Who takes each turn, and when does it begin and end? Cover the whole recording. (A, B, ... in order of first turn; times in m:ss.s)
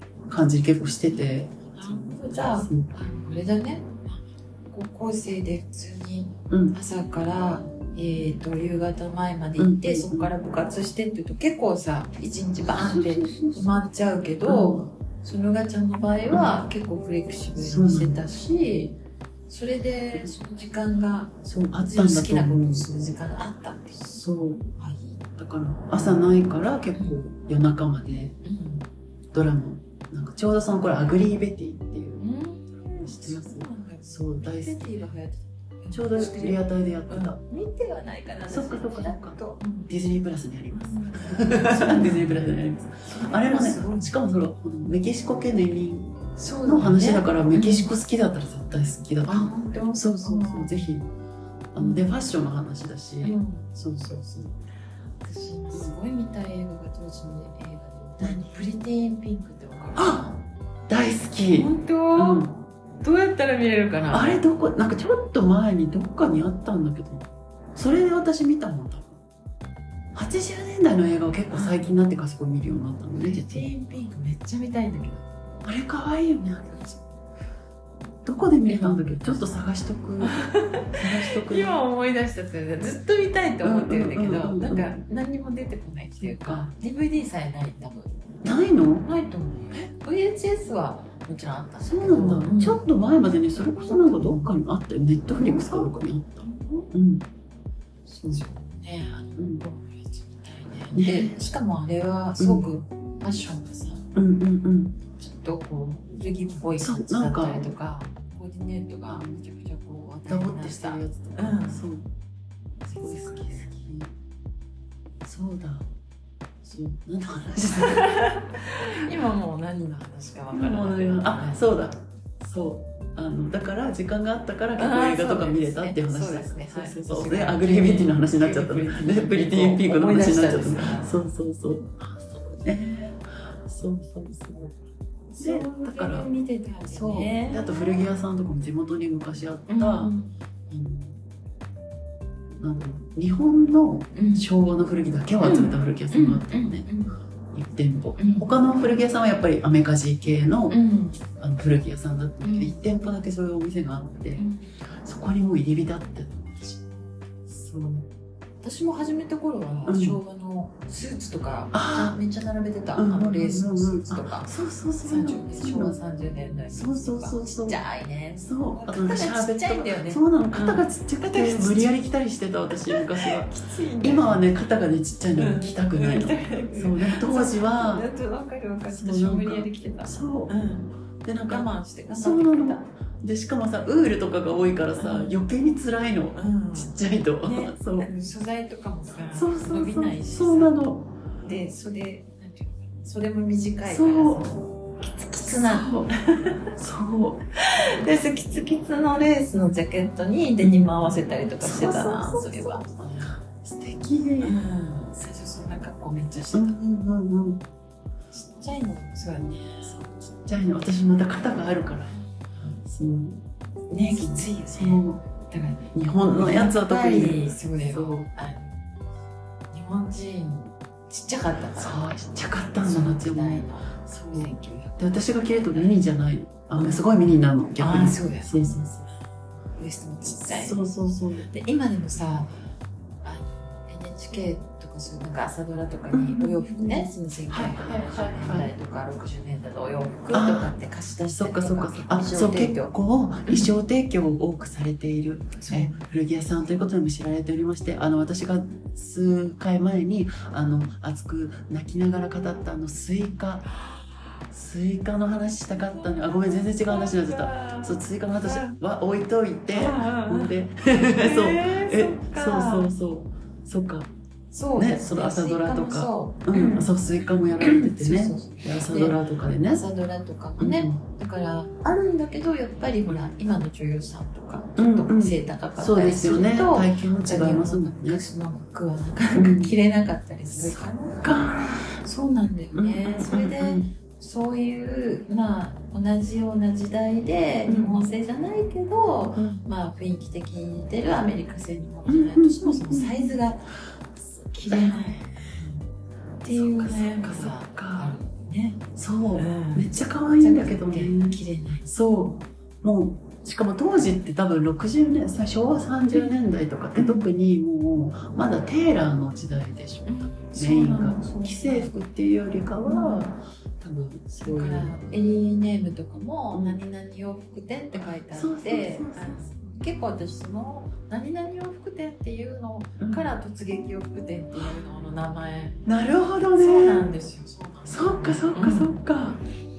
0:00.3-0:02.9 A
0:01.7-0:19.0 B
0:06.5-0:06.8 A
0:09.6-0:10.3 A
0:12.6-0:13.8 A
0:14.4-0:14.8 A
0:17.6-0:18.2 A
0:19.5-0:24.0 B
0:21.4-0:22.9 A
0:24.0-0:24.7 A
0:24.8-0:25.2 B
0:25.4-0:28.4 A
0:25.9-0:26.3 B
0:28.4-0:28.9 B
0:29.3-0:32.2 A
0:32.2-0:39.9 B
0:32.8-0:35.0 A
0:35.9-0:37.4 A
0:38.5-0:51.1 A
0:40.7-0:44.1 B
0:46.4-0:47.9 B
0:49.2-0:50.9 B
0:51.7-0:54.5 A
0:51.8-0:52.1 B
0:53.2-0:53.7 B
0:55.2-1:00.4 B
0:58.2-0:58.6 A
1:00.0-1:00.3 A
1:00.9-1:02.5 A
1:01.5-1:04.4 B
1:04.1-1:09.2 A
1:10.1-1:13.7 A
1:11.5-1:11.9 B
1:13.2-1:15.4 B
1:15.6-1:17.0 A
1:18.2-1:21.8 A
1:18.6-1:19.5 B
1:20.2-1:28.2 B
1:23.6-1:25.0 A
1:26.2-1:26.7 A
1:28.4-1:29.1 A
1:29.0-1:32.8 B
1:31.8-1:37.2 A
1:33.8-1:34.5 B
1:35.3-1:36.9 B
1:38.1-1:44.1 B
1:38.2-1:38.4 A
1:39.4-1:39.6 A
1:40.9-1:41.4 A
1:42.4-1:42.7 A
1:44.1-1:45.0 A
1:45.2-1:51.8 B
1:46.8-1:47.7 A
1:49.1-1:49.4 A
1:50.3-1:52.1 A
1:52.8-1:53.9 B
1:52.9-1:54.1 A
1:55.2-1:55.9 A
1:56.6-1:58.4 A
1:57.8-2:01.7 B
2:00.5-2:14.8 A
2:04.8-2:11.1 B
2:15.3-2:18.0 B
2:15.4-2:16.3 A
2:16.8-2:20.1 A
2:19.7-2:20.3 B
2:20.7-2:21.2 A
2:22.6-2:26.9 A
2:24.1-2:24.4 B
2:25.4-2:27.2 B
2:27.5-2:30.8 A
2:28.2-2:28.5 B
2:30.7-2:31.2 B
2:31.4-2:36.8 A
2:32.4-2:32.8 B
2:34.4-2:34.7 B
2:37.5-2:38.1 A
2:38.6-2:44.5 B
2:39.8-2:40.2 A
2:41.7-2:42.2 A
2:42.9-2:46.0 A
2:45.0-2:52.0 B
2:46.7-2:47.8 A
2:48.4-2:58.1 A
2:52.9-2:54.5 B
2:55.4-3:00.9 B
2:58.9-3:00.5 A
3:01.2-3:08.1 A
3:01.5-3:02.9 B
3:05.0-3:05.4 B
3:06.4-3:10.8 B
3:09.3-3:11.1 A
3:11.4-3:16.7 B
3:13.9-3:14.6 A
3:15.4-3:16.1 A
3:16.8-3:17.4 A
3:17.6-3:22.8 B
3:20.6-3:20.9 A
3:21.6-3:24.5 A
3:24.4-3:26.8 B
3:26.5-3:27.6 A
3:28.3-3:29.9 B
3:29.8-3:32.2 A
3:32.8-3:33.4 A
3:33.9-3:38.8 B
3:33.9-3:35.2 A
3:35.9-3:38.3 A
3:39.7-3:42.1 B
3:41.8-3:49.1 A
3:42.7-3:46.0 B
3:47.8-3:48.7 B
3:49.8-3:50.8 B
3:50.4-3:51.5 A
3:51.5-3:52.6 B
3:53.2-4:02.9 B
3:56.1-3:58.7 A
4:00.3-4:00.7 A
4:01.3-4:13.7 A
4:03.5-4:03.7 B
4:05.6-4:06.1 B
4:14.5-4:24.1 A
4:15.9-4:18.8 B
4:19.7-4:22.9 B
4:24.5-4:26.9 B
4:24.8-4:29.8 A
4:27.6-4:29.2 B
4:29.7-4:53.7 B
4:30.6-4:31.0 A
4:34.8-4:38.2 A
4:39.3-4:39.7 A
4:40.6-4:41.9 A
4:42.7-4:43.9 A
4:47.7-4:48.1 A
4:49.4-4:49.6 A
4:52.1-4:53.4 A
4:54.4-4:55.8 B
4:54.7-4:55.7 A
4:56.4-4:58.8 B
4:56.5-4:58.2 A
4:59.0-5:15.0 A
4:59.4-5:01.9 B
5:06.9-5:07.3 B
5:10.0-5:11.9 B
5:12.8-5:13.3 B
5:14.4-5:25.8 B
5:16.5-5:16.8 A
5:17.9-5:19.7 A
5:23.0-5:23.3 A
5:25.8-5:27.1 A
5:26.5-5:29.0 B
5:27.8-5:29.4 A